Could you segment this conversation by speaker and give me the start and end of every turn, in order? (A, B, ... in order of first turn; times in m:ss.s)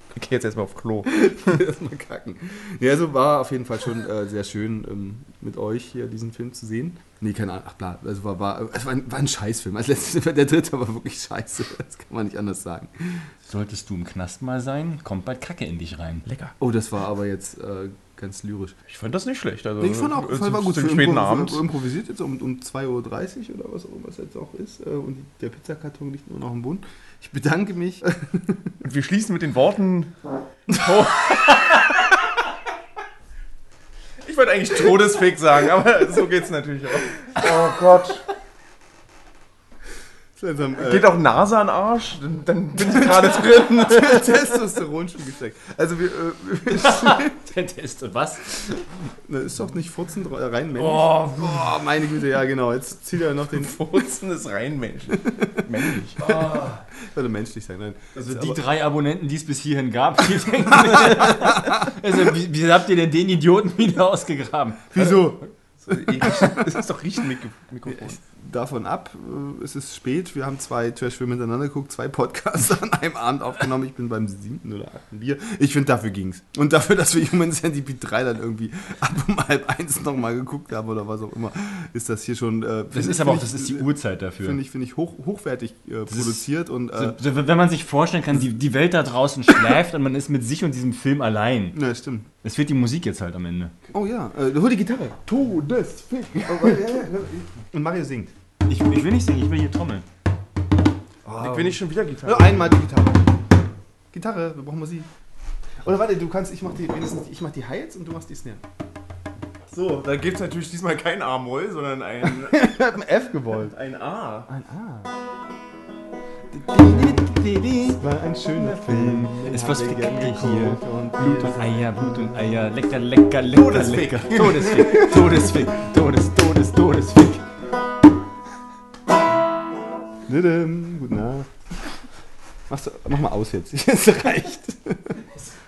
0:00.1-0:01.5 A
0:01.1-0:13.2 B
0:13.5-0:16.3 C
0:16.3-0:16.5 A
0:16.6-0:18.8 B
0:18.9-0:21.6 A
0:19.8-0:28.7 B
0:28.8-0:30.1 A
0:30.7-0:31.9 A
0:34.2-0:38.2 A
0:40.4-0:41.1 B
0:40.8-0:44.5 A
0:43.0-0:47.4 B
0:46.7-0:48.9 C
0:49.3-0:53.8 B
0:50.8-0:51.8 C
0:53.5-0:56.6 A
0:55.1-0:55.9 B
0:56.2-0:56.8 C
0:57.1-0:58.6 B
0:58.2-1:05.4 C
1:00.6-1:01.9 B
1:04.9-1:05.4 B
1:05.8-1:08.2 A
1:06.2-1:06.6 B
1:07.9-1:23.9 B
1:22.9-1:24.6 C
1:24.4-1:27.2 B
1:26.1-1:31.8 C
1:31.7-1:32.3 B
1:32.4-1:33.7 C
1:33.9-1:35.5 B
1:35.4-1:36.3 A
1:36.1-1:38.3 B
1:38.7-1:40.0 C
1:41.2-1:43.3 B
1:41.4-1:42.7 A
1:44.1-1:45.1 B
1:45.8-1:48.6 B
1:49.7-1:52.8 A
1:52.2-1:53.7 B
1:53.6-1:54.5 A
1:54.5-1:55.1 B
1:56.5-1:58.0 C
1:57.9-2:01.9 B
1:58.5-2:07.4 C
2:03.5-2:05.2 A
2:10.3-2:11.5 B
2:12.7-2:15.2 B